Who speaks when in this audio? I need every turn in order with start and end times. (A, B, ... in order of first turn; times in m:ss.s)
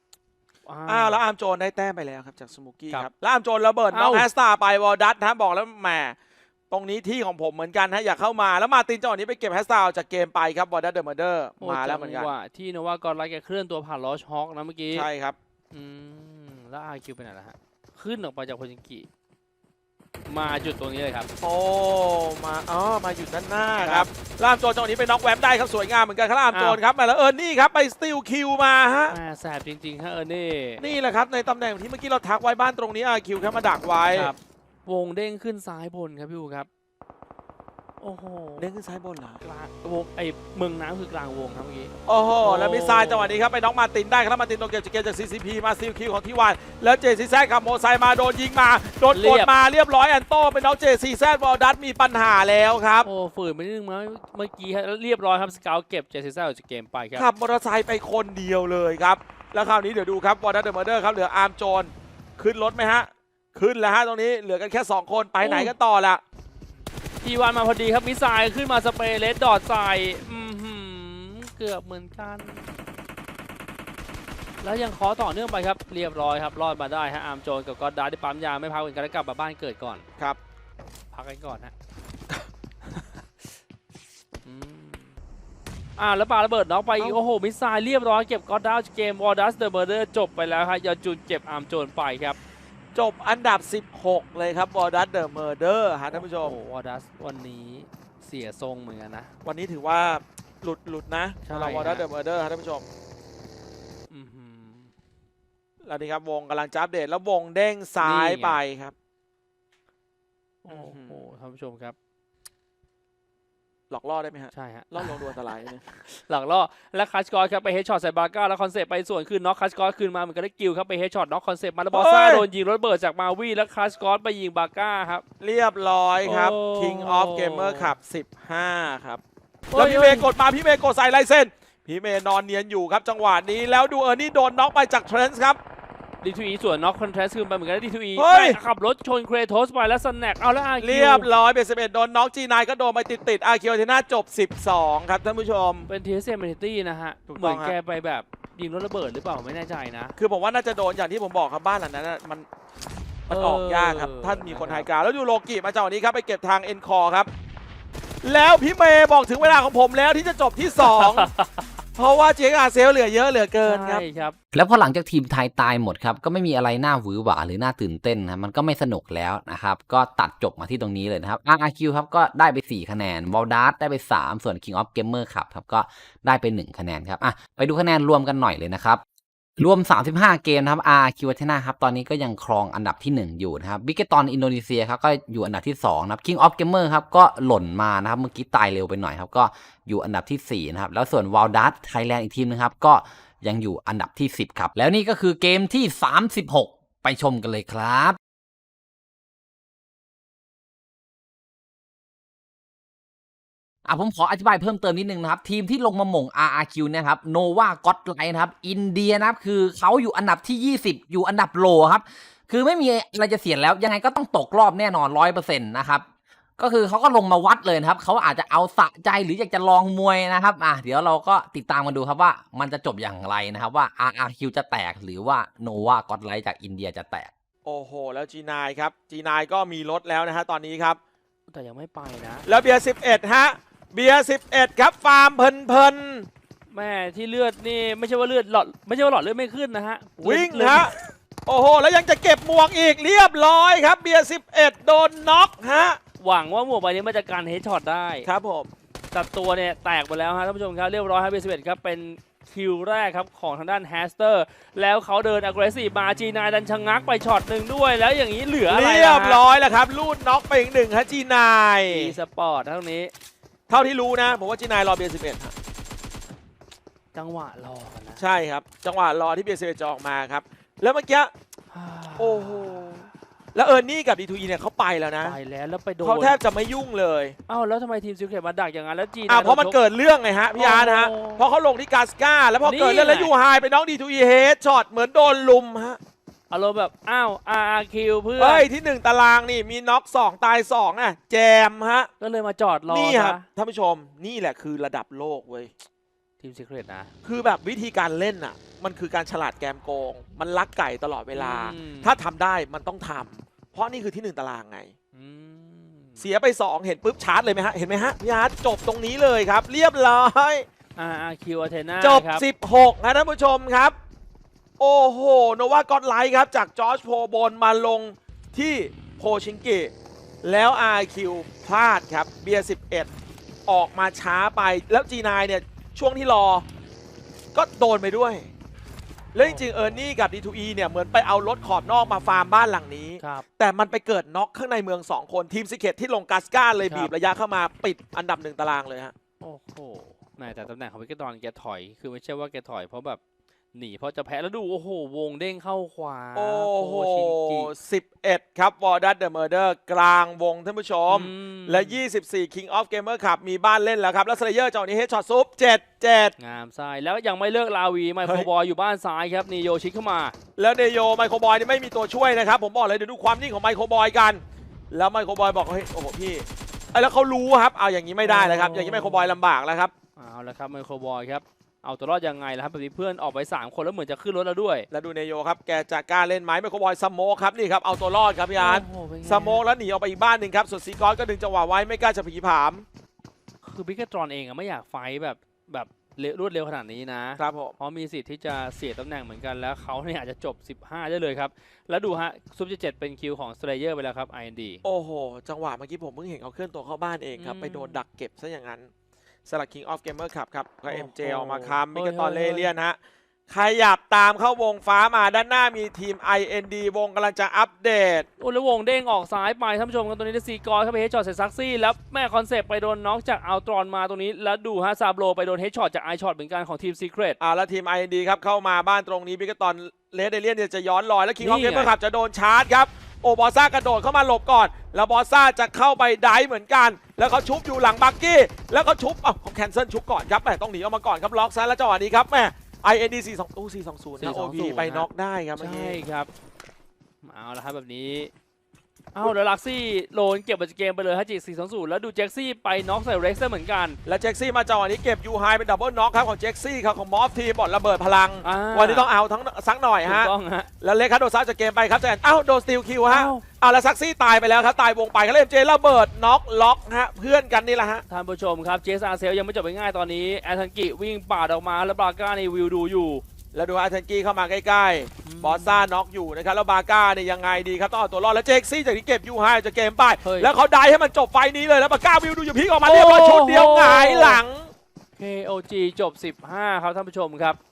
0:00.6-0:01.2 A
0:00.9-0:06.2 B
0:03.9-0:04.3 A
0:06.7-0:12.3 B
0:11.6-0:15.1 A
0:14.9-0:15.4 B
0:15.7-0:19.1 A
0:20.3-0:21.3 A
0:21.4-0:29.2 B
0:23.8-0:24.1 A
0:26.5-0:26.8 A
0:29.1-0:30.8 A
0:30.8-0:34.3 B
0:34.1-0:36.7 A
0:38.0-0:38.7 A
0:38.6-0:39.4 B
0:39.4-0:43.4 A
0:42.0-0:53.1 B
0:49.1-0:49.5 A
0:53.0-0:57.3 A
0:57.1-1:06.2 B
1:05.4-1:05.7 A
1:07.2-1:12.7 A
1:14.6-1:20.0 A
1:21.1-1:21.7 A
1:22.9-1:23.5 A
1:24.4-1:25.1 A
1:26.0-1:32.4 A
1:32.9-1:36.5 B
1:36.1-1:39.3 A
1:39.4-1:42.8 B
1:41.4-1:42.0 A
1:44.1-1:44.9 A
1:45.8-1:48.9 B
1:48.0-1:48.6 A
1:50.6-1:51.9 A
1:50.7-1:51.2 B
1:53.9-1:55.8 B
1:54.5-2:05.2 A
2:01.9-2:02.4 B
2:05.4-2:09.2 B
2:06.2-2:07.9 A
2:09.7-2:10.3 A
2:09.7-2:15.6 B
2:16.2-2:21.3 A
2:18.2-2:18.6 B
2:20.8-2:25.9 B
2:25.9-2:30.1 A
2:27.3-2:27.7 B
2:30.2-2:32.4 B
2:33.3-2:37.3 B
2:33.3-2:34.9 A
2:38.2-2:41.3 B
2:40.8-2:41.7 A
2:42.0-2:44.0 B
2:43.6-2:44.4 A
2:44.5-2:59.0 C
2:59.6-3:18.2 C
3:23.8-3:36.0 C
3:36.6-3:47.3 C
3:47.6-3:51.0 B
3:51.5-3:52.5 A
3:52.4-3:56.3 B
3:56.7-4:00.9 A
4:00.2-4:00.9 B
4:01.4-4:06.0 B
4:06.2-4:08.3 A
4:08.2-4:08.7 B
4:09.1-4:19.4 A
4:18.7-4:22.2 B
4:21.9-4:23.1 A
4:23.7-4:25.5 B
4:27.1-4:28.2 A
4:28.2-4:31.3 B
4:31.7-4:33.0 A
4:32.2-4:33.0 B
4:33.5-4:35.4 B
4:35.2-4:36.4 A
4:36.0-4:37.4 B
4:37.5-4:39.8 A
4:39.3-4:46.0 B
4:40.5-4:41.4 A
4:42.6-4:43.3 A
4:46.5-4:48.7 A
4:48.4-4:52.1 B
4:52.2-4:53.4 A
4:52.9-4:55.7 B
4:56.4-4:57.1 A
4:57.2-5:04.9 B
5:01.3-5:02.2 A
5:05.1-5:06.2 A
5:06.2-5:10.6 B
5:11.0-5:12.4 A
5:12.0-5:13.9 B
5:14.8-5:23.1 B
5:23.7-5:26.6 B
5:27.5-5:28.5 B
5:29.3-5:39.1 B
5:29.4-5:30.0 A
5:33.2-5:33.4 A
5:36.8-5:37.1 A
5:39.4-5:43.2 A
5:43.7-5:47.7 A
5:46.3-5:56.3 B
5:51.1-5:52.0 A
5:56.4-6:00.3 A
5:58.2-5:58.5 B
6:00.6-6:09.9 B
6:08.2-6:09.4 A
6:10.2-6:14.9 A
6:14.9-6:22.8 B
6:18.6-6:19.6 A
6:23.6-6:34.8 A
6:27.4-6:27.8 B
6:34.8-6:38.9 B
6:37.4-6:38.0 A
6:39.4-6:43.0 B
6:40.9-6:42.7 A
6:43.5-6:48.3 B
6:48.4-6:57.4 A
6:57.4-7:16.0 B
7:01.4-7:01.9 A
7:14.2-7:16.3 A
7:17.2-7:18.3 A
7:19.1-7:24.0 A
7:24.0-7:38.0 B
7:28.4-7:29.1 A
7:30.0-7:30.7 A
7:33.1-7:33.4 A
7:38.1-7:43.2 A
7:43.5-7:54.7 B
7:45.2-7:45.9 A
7:50.2-7:50.5 A
7:52.8-7:54.4 A
7:55.2-7:57.6 A